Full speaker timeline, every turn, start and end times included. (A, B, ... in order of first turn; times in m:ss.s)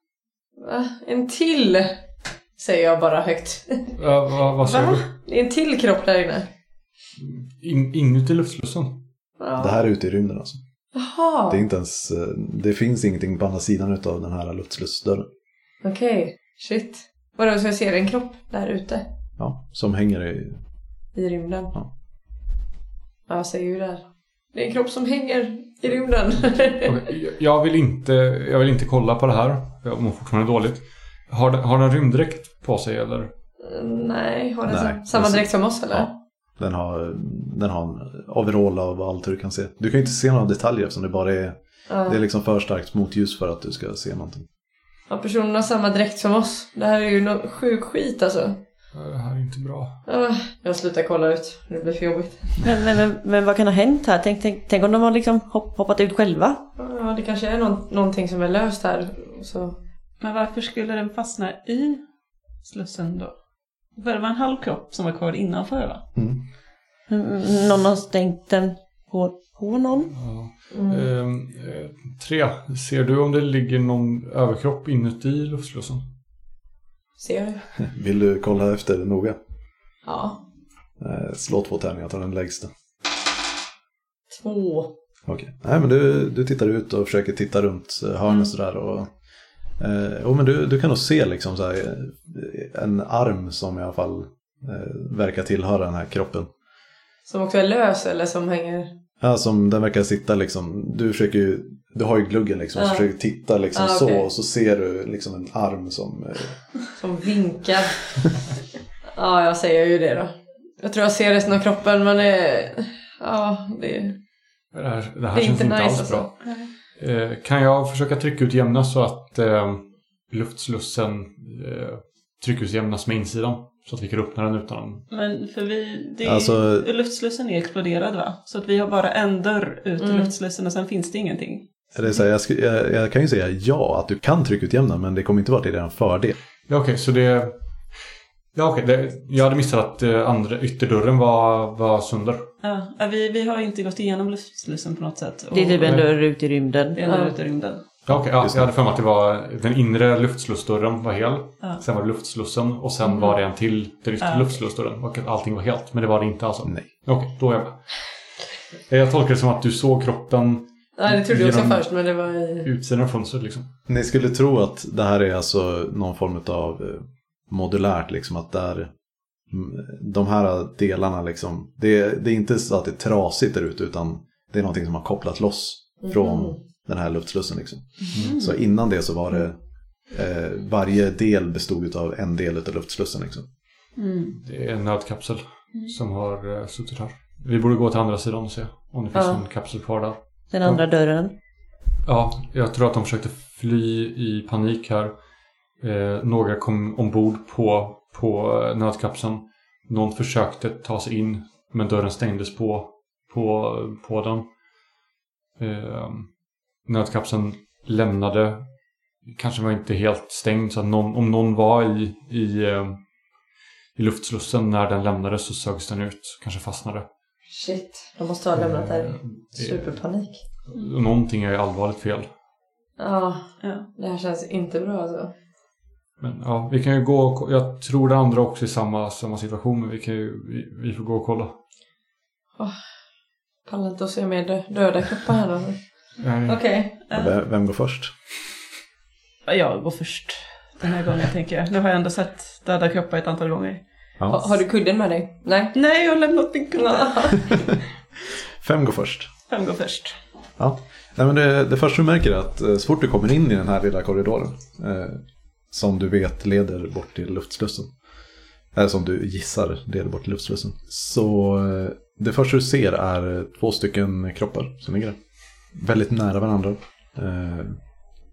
0:00.6-0:02.0 A
0:02.6-0:04.0 A
0:04.0-0:05.1 B
0:04.6-0:06.5 A
0:07.2-0:09.1 B
0:09.4-0:09.8 A
0:09.6-0:10.6 C
0:11.0-0:11.6 A
0:11.5-0:15.3 C
0:15.8-0:19.1 A
0:19.4-0:20.6 C
0:21.2-0:21.7 A
0:23.3-0:27.1 A
0:26.8-0:33.3 B
0:33.6-0:36.1 A
0:34.7-0:44.5 C
0:41.9-0:42.2 A
0:45.1-0:48.6 A
0:48.9-0:50.0 B
0:50.1-0:52.6 A
0:52.6-0:56.6 D
0:56.8-0:59.8 A
1:00.2-1:02.0 E
1:02.6-1:03.3 E
1:04.0-1:06.0 E
1:06.2-1:06.4 C
1:07.1-1:10.1 D
1:10.1-1:16.0 B
1:10.7-1:11.0 A
1:17.2-1:17.6 A
1:17.8-1:19.4 C
1:20.0-1:20.4 A
1:21.0-1:22.7 C
1:24.3-1:24.9 A
1:25.3-1:29.1 C
1:29.8-1:36.5 C
1:37.3-1:38.9 A
1:39.2-1:46.6 C
1:42.8-1:43.1 A
1:43.7-1:44.3 A
1:47.0-1:48.0 A
1:49.1-1:54.2 A
1:54.7-1:56.3 B
1:55.3-1:56.3 A
1:56.4-1:56.7 E
1:57.0-2:05.0 B
2:05.1-2:11.7 E
2:06.2-2:06.9 C
2:10.0-2:10.3 A
2:12.0-2:16.4 C
2:16.7-2:22.5 B
2:22.6-2:26.0 E
2:25.5-2:27.0 D
2:25.8-2:26.1 B
2:26.9-2:27.8 E
2:27.1-2:27.4 A
2:28.1-2:28.7 C
2:28.1-2:38.0 B
2:34.2-2:34.6 E
2:38.9-2:41.9 B
2:41.0-2:42.7 A
2:42.6-2:43.7 B
2:43.9-2:48.9 C
2:49.5-2:59.6 C
2:56.0-2:56.6 A
2:58.1-2:58.6 E
3:00.1-3:03.5 C
3:04.0-3:04.4 E
3:04.3-3:10.8 B
3:09.1-3:09.4 A
3:10.5-3:11.3 D
3:12.0-3:15.2 B
3:15.8-3:24.5 B
3:25.6-3:28.7 B
3:29.2-3:33.0 B
3:34.0-3:37.1 B
3:37.5-3:40.4 A
3:38.6-3:40.0 B
3:40.7-3:42.3 B
3:43.0-3:45.3 A
3:43.6-3:43.9 E
3:46.2-3:51.6 B
3:53.7-3:55.8 A
3:56.2-3:56.7 B
3:56.5-3:57.0 A
3:57.1-3:57.3 E
3:57.1-3:58.1 C
3:59.5-4:03.8 E
4:04.2-4:04.5 C
4:04.3-4:05.8 A
4:05.8-4:07.5 E
4:06.8-4:07.5 A
4:08.6-4:09.3 C
4:09.5-4:10.2 E
4:10.6-4:17.9 C
4:18.7-4:25.2 C
4:25.7-4:27.8 C